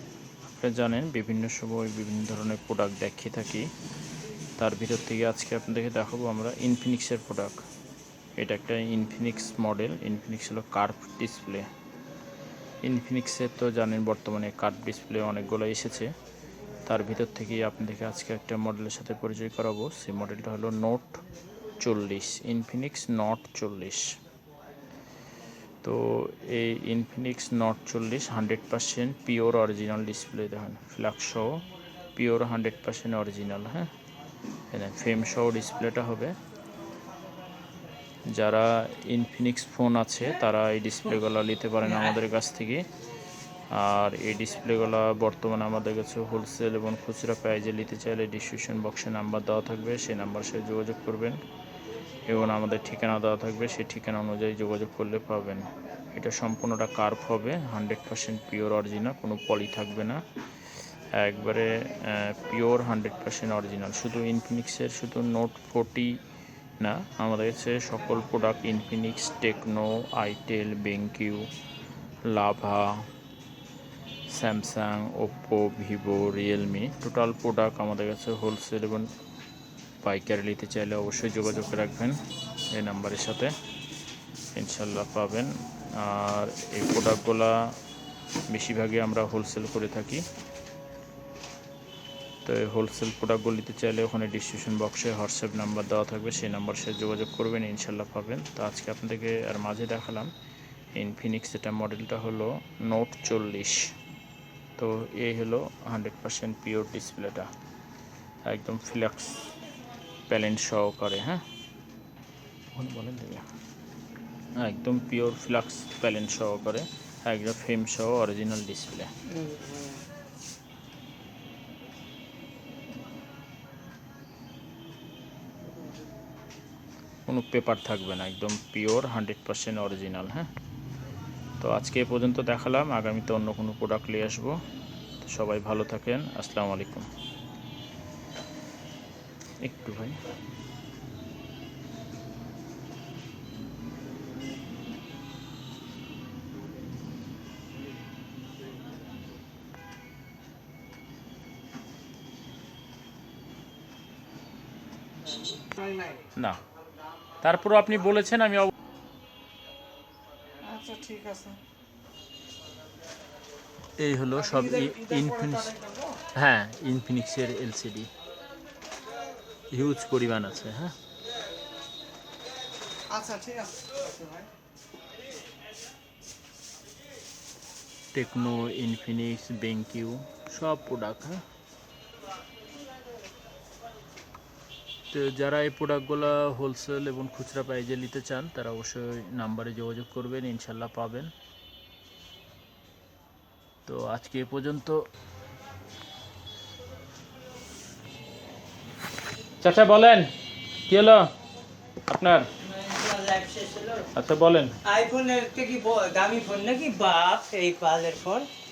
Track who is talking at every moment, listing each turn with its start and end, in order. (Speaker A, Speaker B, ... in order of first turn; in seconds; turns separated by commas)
Speaker A: 0.5-3.7, Speaker A: 4.6-7.6, Speaker A: 8.4-11.7, Speaker A: 12.8-16.1, Speaker A: 16.9-21.2, Speaker A: 21.8-24.2, Speaker A: 25.8-31.6, Speaker A: 32.2-33.9, Speaker A: 34.7-36.3, Speaker A: 38.3-42.9, Speaker B: 41.8-42.2, Speaker A: 43.7-51.4, Speaker A: 52.3-60.2, Speaker A: 61.1-66.2, Speaker A: 66.8-71.5, Speaker A: 72.3-73.1, Speaker A: 74.3-79.1, Speaker A: 80.0-83.5, Speaker A: 84.5-87.7, Speaker A: 88.5-90.2, Speaker A: 92.5-100.3, Speaker A: 101.0-103.9, Speaker A: 104.8-107.5, Speaker A: 108.5-109.5, Speaker A: 110.3-111.4, Speaker A: 112.8-113.5, Speaker A: 114.6-119.1, Speaker A: 127.3-130.5, Speaker A: 131.6-134.6, Speaker A: 135.2-137.1, Speaker A: 139.6-140.2, Speaker A: 157.4-158.7, Speaker C: 160.6-161.6, Speaker A: 164.0-165.8, Speaker C: 164.8-166.2, Speaker A: 166.3-168.1, Speaker A: 169.7-170.9, Speaker C: 173.1-174.5, Speaker A: 178.1-181.4, Speaker A: 185.1-191.3, Speaker A: 193.9-195.1, Speaker A: 199.6-200.3, Speaker A: 200.9-201.3, Speaker A: 202.1-202.5, Speaker B: 202.6-204.1, Speaker A: 204.2-204.8, Speaker B: 204.8-208.5